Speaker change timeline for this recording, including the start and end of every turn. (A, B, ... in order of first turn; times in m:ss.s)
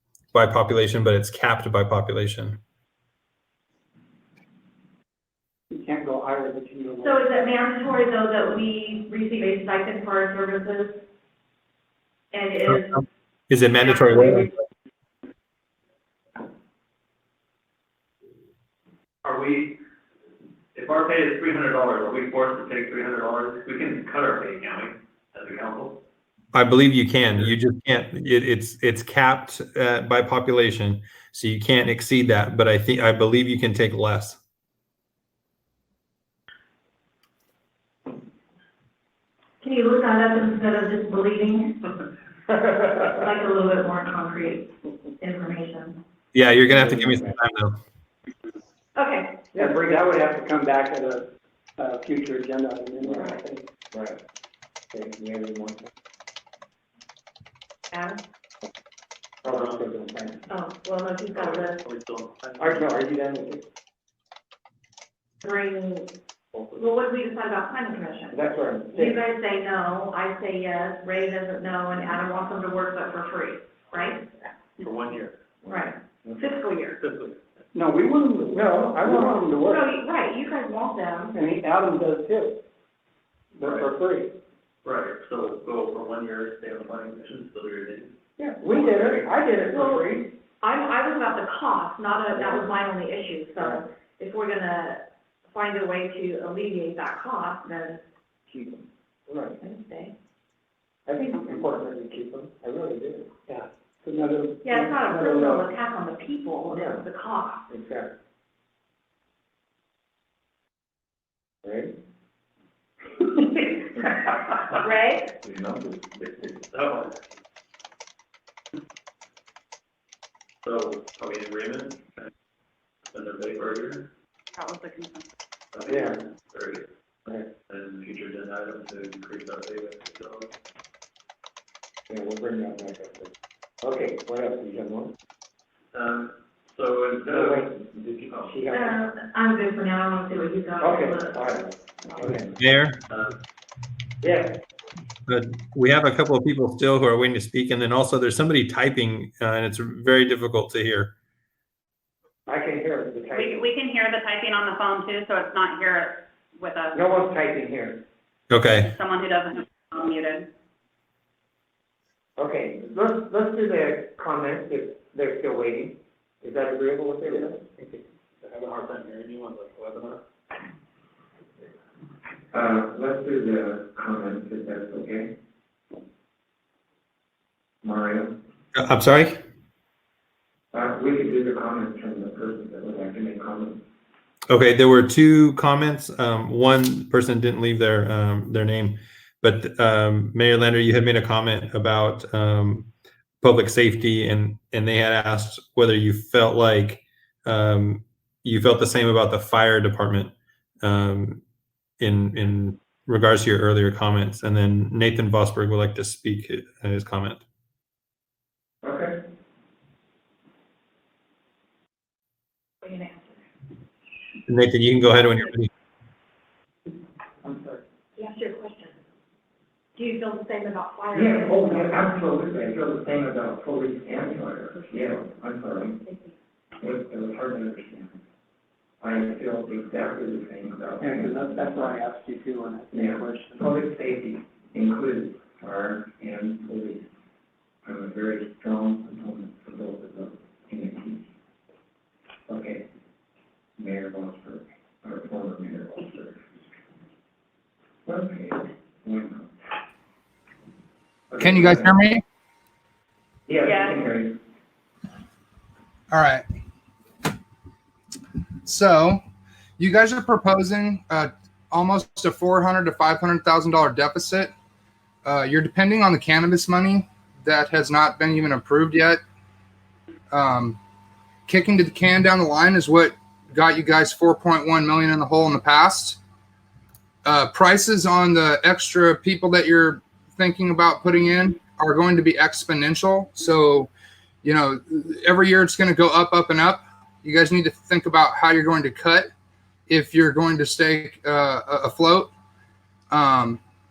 0:00.3-0:02.6 A
0:05.7-0:07.2 B
0:07.0-0:11.0 C
0:12.3-0:13.0 C
0:12.7-0:14.5 A
0:13.7-0:14.5 C
0:19.2-0:19.7 D
0:20.7-0:26.0 D
0:26.5-0:34.4 A
0:39.6-0:41.9 C
0:43.0-0:46.0 C
0:46.3-0:47.8 A
0:46.7-0:47.3 E
0:48.9-0:49.5 C
0:49.5-0:50.0 E
0:49.5-0:53.6 B
0:53.0-0:53.4 E
0:53.9-0:54.2 E
0:54.9-0:55.8 E
0:57.9-0:58.2 C
0:59.4-1:00.4 E
0:59.4-0:59.8 D
1:00.5-1:01.8 C
1:01.3-1:02.9 D
1:02.6-1:03.7 E
1:05.4-1:06.1 C
1:06.7-1:08.4 C
1:08.3-1:09.2 E
1:08.9-1:14.2 C
1:14.8-1:15.3 D
1:15.6-1:17.0 C
1:16.2-1:16.5 E
1:17.0-1:17.4 D
1:17.7-1:19.8 B
1:18.5-1:19.5 E
1:19.6-1:21.4 C
1:21.3-1:22.6 B
1:23.5-1:24.3 B
1:23.6-1:23.9 D
1:24.8-1:28.1 D
1:28.4-1:29.8 E
1:28.7-1:29.4 D
1:29.1-1:30.2 B
1:29.6-1:38.0 C
1:32.3-1:32.6 E
1:38.5-1:39.6 E
1:39.6-1:40.1 C
1:41.0-1:43.3 E
1:43.5-1:45.6 B
1:44.6-1:47.6 C
1:46.7-1:47.0 E
1:47.7-1:48.1 E
1:51.6-1:51.9 E
1:53.7-1:54.3 E
1:54.7-1:55.3 C
1:55.4-1:56.1 E
1:56.6-1:57.1 D
2:00.6-2:02.3 D
2:03.1-2:04.1 D
2:04.5-2:05.3 F
2:05.7-2:06.8 D
2:05.9-2:06.2 E
2:07.7-2:10.5 D
2:12.1-2:13.3 E
2:13.8-2:15.1 E
2:15.9-2:18.6 D
2:17.2-2:19.0 E
2:18.7-2:22.3 C
2:20.8-2:22.5 E
2:22.6-2:23.0 A
2:24.2-2:24.6 E
2:25.3-2:31.1 A
2:32.4-2:33.6 E
2:33.3-2:37.0 F
2:36.9-2:38.0 E
2:38.5-2:38.9 A
2:38.8-2:40.5 F
2:42.4-2:47.6 E
2:47.3-2:50.2 D
2:52.5-2:55.3 E
2:57.8-2:58.4 E
2:58.7-2:59.4 A
3:00.7-3:03.8 E
3:04.5-3:21.4 A
3:22.0-3:27.4 A
3:28.8-3:29.2 E
3:32.8-3:33.4 C
3:34.5-3:35.7 A
3:37.4-3:37.8 E
3:38.2-3:39.0 C
3:39.9-3:41.9 C
3:41.1-3:46.0 E
3:46.1-3:46.3 C
3:46.8-3:48.2 E
3:49.0-3:51.9 E
3:51.0-3:53.7 B
3:52.9-3:57.1 E
3:57.8-4:01.3 E
4:02.5-4:02.8 E
4:03.8-4:06.4 E
4:08.0-4:09.5 E
4:11.3-4:11.9 E
4:11.4-4:12.2 G
4:13.5-4:14.4 E
4:16.1-4:16.4 G
4:18.6-4:19.2 G
4:19.8-4:24.5 G
4:25.2-4:29.2 G
4:30.3-4:30.8 G
4:31.5-4:36.2 G
4:37.2-4:43.9 G
4:44.4-4:49.3 G
4:49.9-4:52.3 G
4:53.1-4:53.6 G